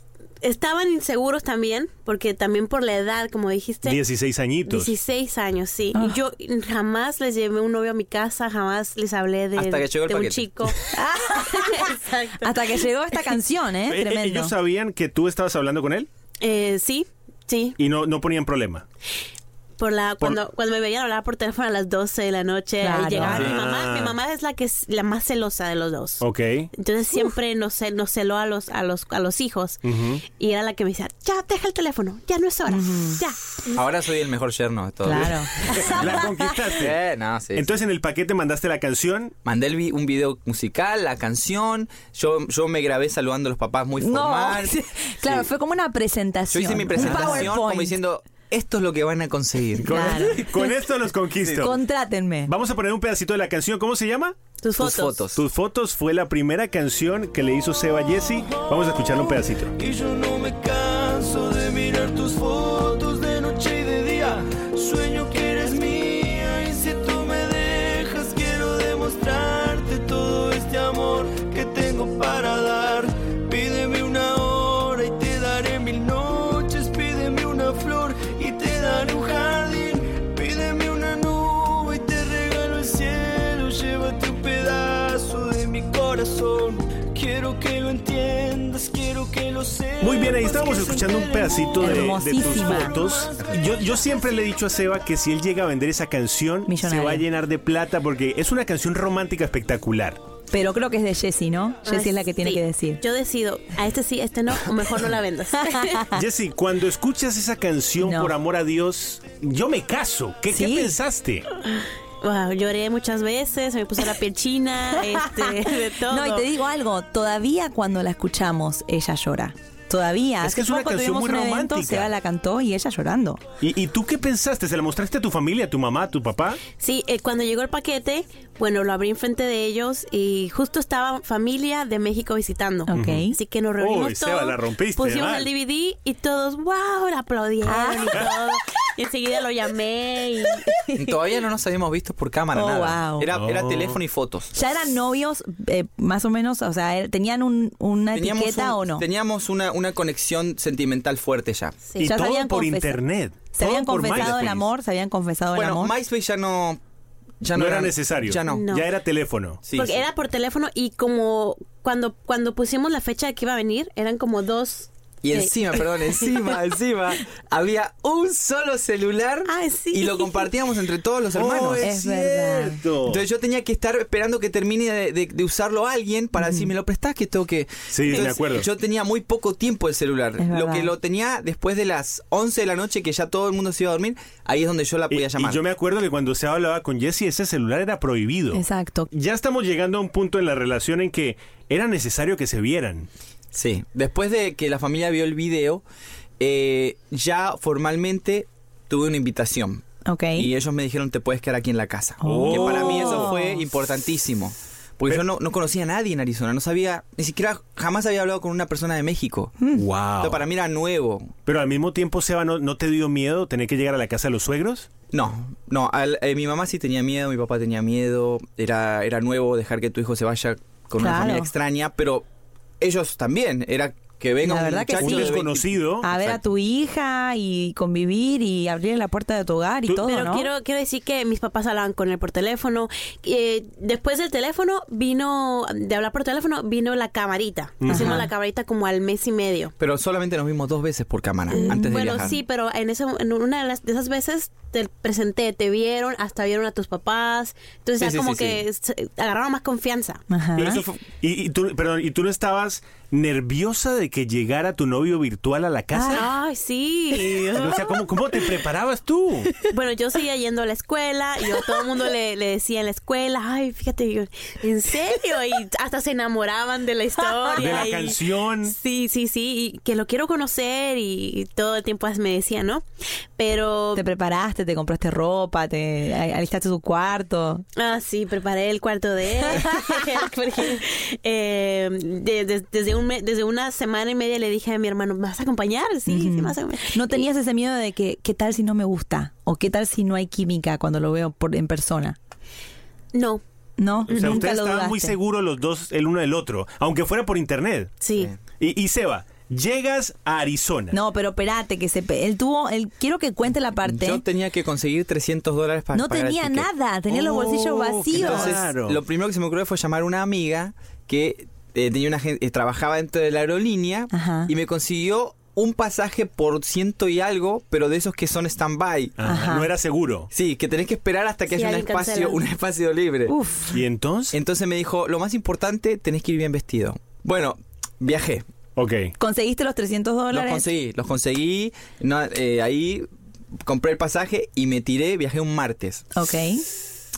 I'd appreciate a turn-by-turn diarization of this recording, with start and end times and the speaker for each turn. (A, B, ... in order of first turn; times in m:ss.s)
0:00.4-0:04.0 A
0:03.9-0:04.9 B
0:04.7-0:10.8 A
0:09.6-0:10.5 C
0:10.9-0:11.9 D
0:11.5-0:12.6 A
0:12.4-0:14.5 D
0:13.9-0:16.1 B
0:16.4-0:17.8 A
0:17.8-0:18.8 B
0:19.8-0:26.2 A
0:22.8-0:23.4 D
0:23.2-0:24.2 B
0:23.3-0:23.6 C
0:26.2-0:26.7 B
0:26.8-0:29.8 A
0:29.8-0:30.2 B
0:30.4-0:33.8 A
0:32.7-0:33.2 D
0:33.7-0:36.1 C
0:35.0-0:36.4 D
0:35.1-0:37.0 B
0:36.7-0:37.8 C
0:37.6-0:39.3 B
0:39.4-0:44.8 C
0:44.0-0:48.0 D
0:46.5-0:50.2 C
0:47.0-0:47.5 B
0:49.8-0:51.8 B
0:49.9-0:50.7 D
0:51.4-0:51.7 C
0:51.6-0:52.5 D
0:52.5-0:54.4 B
0:54.6-0:55.2 A
0:54.8-0:55.5 C
0:55.4-0:59.8 B
0:58.5-0:59.2 E
0:59.8-1:34.2 E
1:30.0-1:40.2 B
1:31.8-1:33.0 D
1:36.7-1:37.3 D
1:40.5-1:43.0 D
1:41.9-1:46.0 A
1:45.7-1:46.2 D
1:46.1-1:51.5 B
1:48.0-1:48.3 D
1:50.5-1:51.0 D
1:51.7-1:56.5 A
1:55.2-2:03.4 D
2:00.4-2:02.1 B
2:03.6-2:06.6 B
2:06.8-2:21.0 A
2:12.9-2:13.4 D
2:12.9-2:13.3 B
2:13.8-2:15.5 B
2:17.6-2:18.3 D
2:21.0-2:24.5 C
2:22.5-2:23.3 D
2:23.3-2:24.0 B
2:24.5-2:29.0 D
2:28.1-2:31.8 C
2:32.0-2:34.7 B
2:32.0-2:33.0 D
2:33.5-2:35.9 D
2:35.6-2:36.8 C
2:37.4-2:38.7 C
2:37.6-2:39.6 B
2:38.5-2:38.9 A
2:39.6-2:40.1 C
2:39.7-2:46.5 A
2:45.2-3:05.6 C
2:49.5-2:50.5 A
2:51.3-2:53.2 B
2:51.8-2:52.8 D
2:56.4-2:56.7 D
2:57.9-2:58.7 B
3:00.4-3:00.9 D
3:05.1-3:13.1 B
3:08.5-3:09.1 D
3:13.5-3:15.8 C
3:16.4-3:19.8 C
3:20.0-3:20.5 D
3:20.4-3:29.6 C
3:22.2-3:23.7 D
3:22.3-3:23.3 B
3:29.8-3:30.4 B
3:30.2-3:31.3 C
3:31.5-3:34.9 B
3:35.1-3:42.3 C
3:41.0-3:41.5 D
3:42.8-3:46.4 C
3:44.4-3:45.4 D
3:44.9-3:46.1 B
3:46.0-3:50.5 D
3:50.0-3:59.7 A
3:57.8-3:58.2 B
3:57.9-3:58.3 D
3:59.8-4:02.4 C
4:01.5-4:02.4 D
4:01.5-4:10.2 A
4:08.0-4:08.6 C
4:10.3-4:10.8 D
4:10.6-4:16.2 B
4:10.6-4:11.0 C
4:15.9-4:16.2 D
4:16.2-4:18.0 A
4:17.2-4:19.6 B
4:19.6-4:32.8 A
4:27.5-4:28.7 B
4:33.4-4:34.0 A
4:34.0-4:37.6 D
4:37.8-4:47.2 A
4:46.1-4:52.2 D
4:53.1-4:53.4 A
4:53.8-4:55.2 D
4:54.1-4:57.9 B
4:58.0-4:58.3 A
4:58.6-5:01.0 B
5:00.9-5:04.2 D
5:03.8-5:06.7 C
5:05.9-5:08.6 D
5:07.1-5:09.0 B
5:08.1-5:19.2 C
5:14.1-5:14.5 D
5:19.2-5:20.3 B
5:19.2-5:19.7 D
5:20.3-5:23.4 C
5:21.5-5:22.4 A
5:23.3-5:23.8 D
5:23.7-5:24.4 B
5:24.3-5:28.4 C
5:28.8-5:29.1 B
5:29.2-5:30.7 D
5:30.3-5:33.1 C
5:33.6-5:36.1 C
5:36.2-5:36.6 D